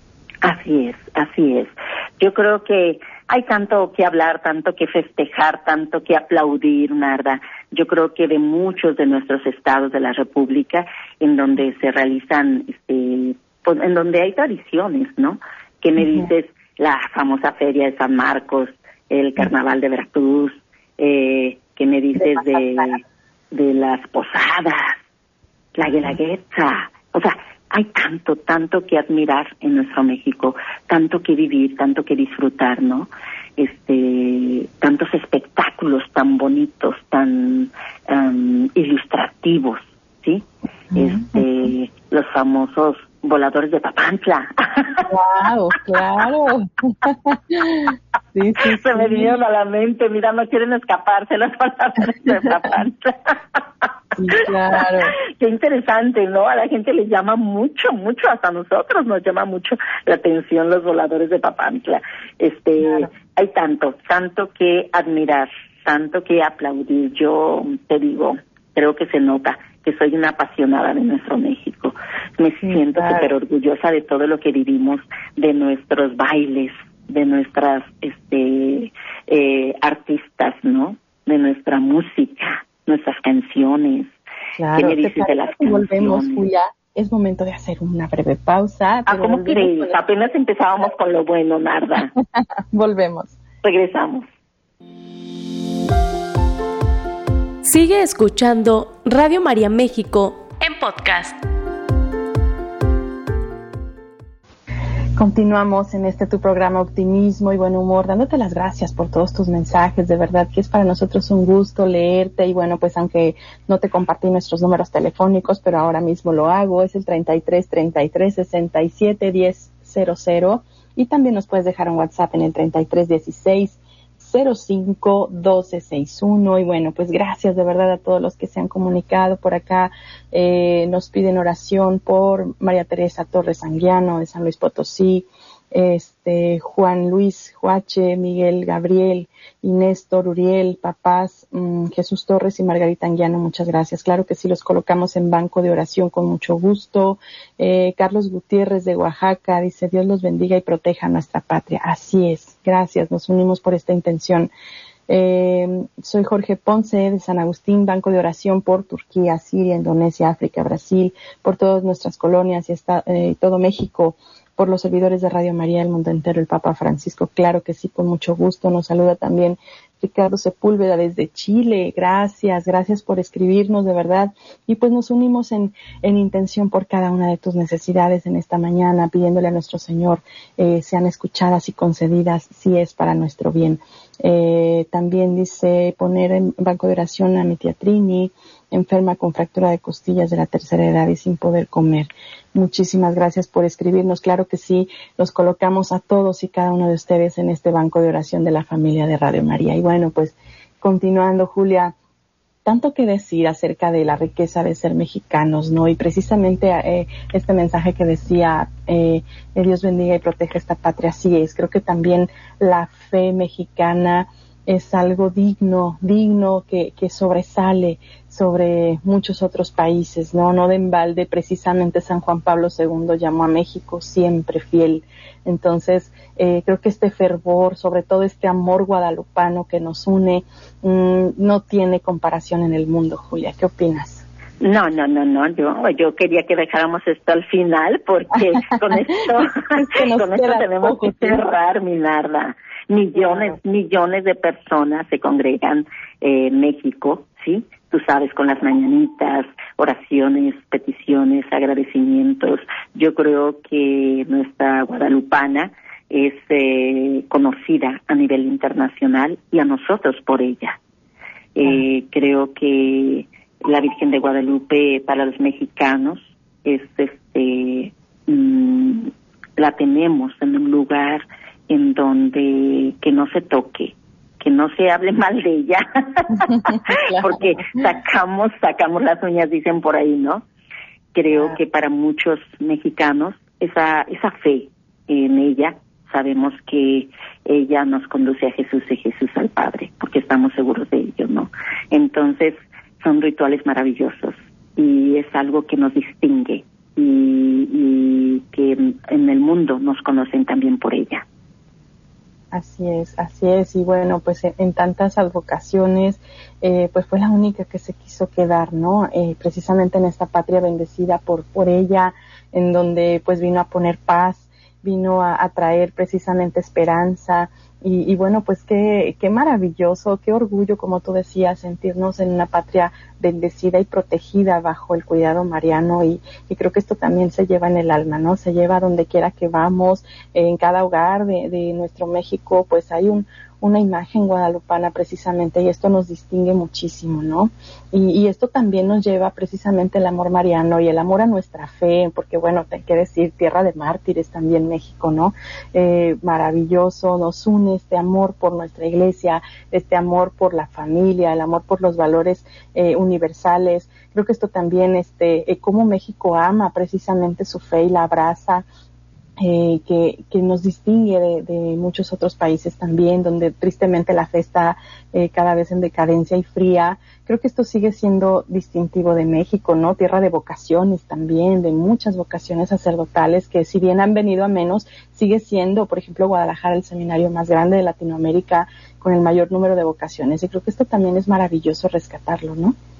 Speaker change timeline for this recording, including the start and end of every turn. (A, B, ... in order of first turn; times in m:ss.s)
0:00.4-0:25.0 A
0:16.0-0:16.3 B
0:22.2-0:22.9 B
0:25.7-0:45.0 A
0:40.9-0:41.4 B
0:45.0-0:49.3 B
0:48.6-0:53.6 A
0:54.2-0:55.1 B
0:55.2-1:24.1 A
1:02.8-1:03.1 B
1:12.6-1:13.3 B
1:24.6-1:30.0 B
1:24.7-1:26.4 A
1:29.1-1:32.1 A
1:32.2-1:33.4 B
1:33.6-1:34.3 A
1:37.6-1:41.3 C
1:45.2-2:34.5 B
2:35.1-3:21.9 B
3:22.6-3:54.2 B
3:54.6-4:20.8 A
3:59.3-4:01.4 B
4:03.2-4:03.6 B
4:21.5-4:40.4 A
4:36.6-4:37.6 B
4:41.1-5:01.2 A
4:41.3-4:41.6 B
5:02.5-5:58.6 B
5:59.4-6:22.8 B